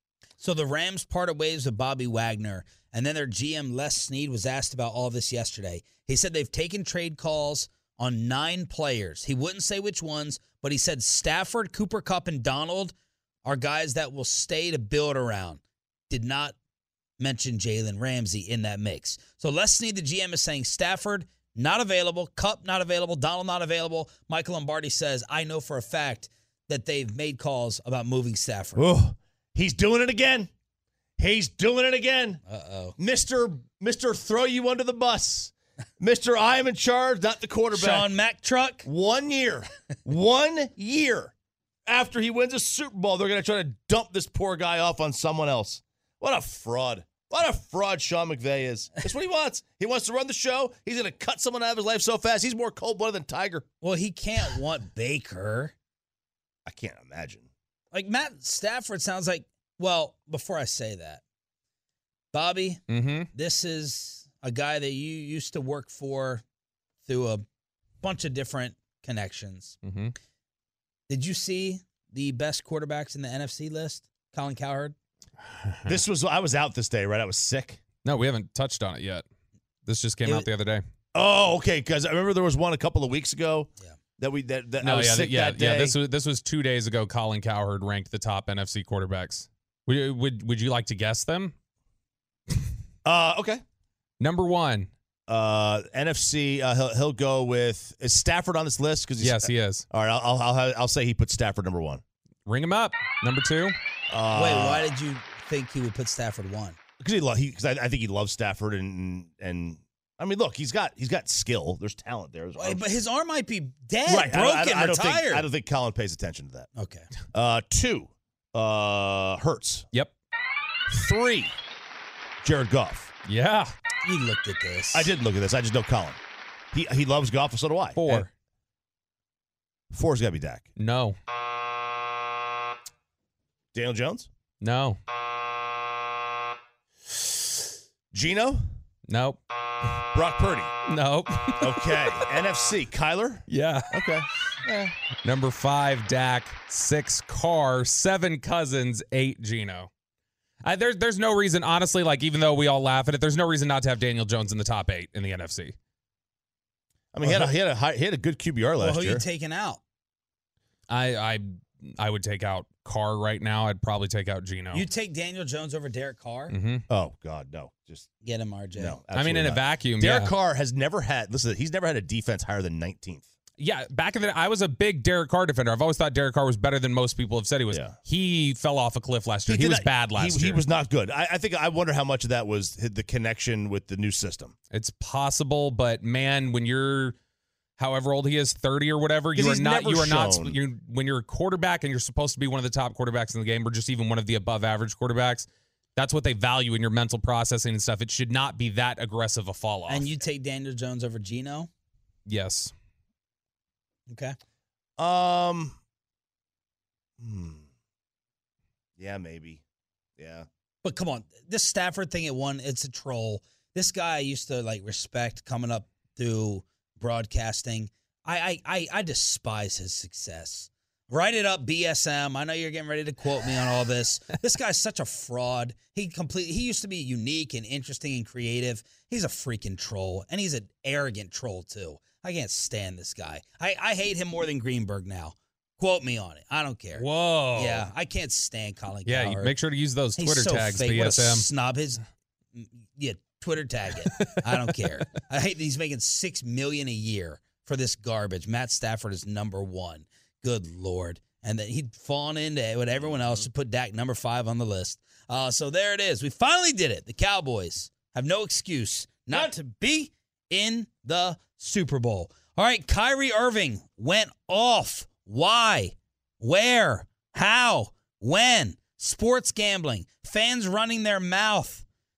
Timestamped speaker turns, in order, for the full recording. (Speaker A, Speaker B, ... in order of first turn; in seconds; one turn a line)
Speaker A: 0.4-12.9
Speaker A: 13.4-16.6
Speaker A: 17.2-28.8
Speaker B: 28.8-30.5
Speaker B: 31.2-32.4
Speaker A: 32.5-33.0
Speaker B: 33.0-38.1
Speaker A: 37.7-38.8
Speaker B: 38.8-41.3
Speaker B: 41.9-53.6
Speaker A: 53.8-55.7
Speaker B: 56.6-57.5
Speaker A: 57.9-61.2
Speaker A: 62.3-62.8
Speaker C: 62.9-63.3
Speaker A: 63.3-66.4
Speaker A: 67.0-67.4
Speaker A: 68.0-69.8
Speaker C: 69.8-70.1
Speaker A: 71.1-74.9
Speaker C: 75.5-75.9
Speaker B: 75.8-77.8
Speaker C: 78.0-79.2
Speaker C: 79.8-80.8
Speaker B: 81.1-86.0
Speaker C: 84.8-91.5
Speaker B: 93.0-93.6
Speaker C: 94.2-94.9
Speaker B: 95.3-102.0
Speaker C: 99.2-99.8
Speaker C: 102.5-103.8
Speaker B: 104.1-104.9
Speaker A: 104.3-106.8
Speaker B: 107.0-112.8
Speaker A: 112.5-115.5
Speaker B: 114.1-116.7
Speaker A: 116.8-117.1
Speaker B: 117.3-119.8
Speaker B: 120.9-121.5
Speaker B: 122.4-123.1
Speaker C: 123.2-123.7
Speaker A: 124.0-125.1
Speaker B: 124.9-126.2
Speaker B: 126.7-128.2
Speaker C: 127.9-128.3
Speaker B: 129.9-130.7
Speaker C: 130.8-131.2
Speaker B: 133.7-134.3
Speaker C: 134.6-135.0
Speaker B: 138.1-138.7
Speaker C: 139.1-139.4
Speaker B: 140.1-140.7
Speaker C: 140.8-142.3
Speaker B: 141.6-144.9
Speaker C: 143.5-144.1
Speaker C: 145.2-149.9
Speaker C: 150.6-155.7
Speaker B: 157.1-159.2
Speaker A: 157.2-157.5
Speaker A: 158.8-159.8
Speaker C: 160.9-164.9
Speaker A: 164.7-166.5
Speaker C: 166.5-166.8
Speaker B: 166.9-168.1
Speaker A: 168.2-169.0
Speaker B: 168.8-173.3
Speaker C: 169.1-170.3
Speaker C: 173.6-180.6
Speaker B: 177.7-178.0
Speaker B: 179.5-184.5
Speaker C: 184.7-187.1
Speaker C: 187.8-200.1
Speaker B: 189.3-190.6
Speaker A: 199.9-201.7
Speaker C: 202.3-202.7
Speaker A: 204.1-204.3
Speaker B: 205.0-205.8
Speaker B: 207.2-207.7
Speaker B: 209.0-209.6
Speaker B: 210.2-210.5
Speaker A: 210.8-239.5
Speaker C: 236.9-237.8
Speaker C: 239.1-241.5
Speaker A: 240.2-242.0
Speaker A: 242.5-271.8
Speaker B: 253.1-253.4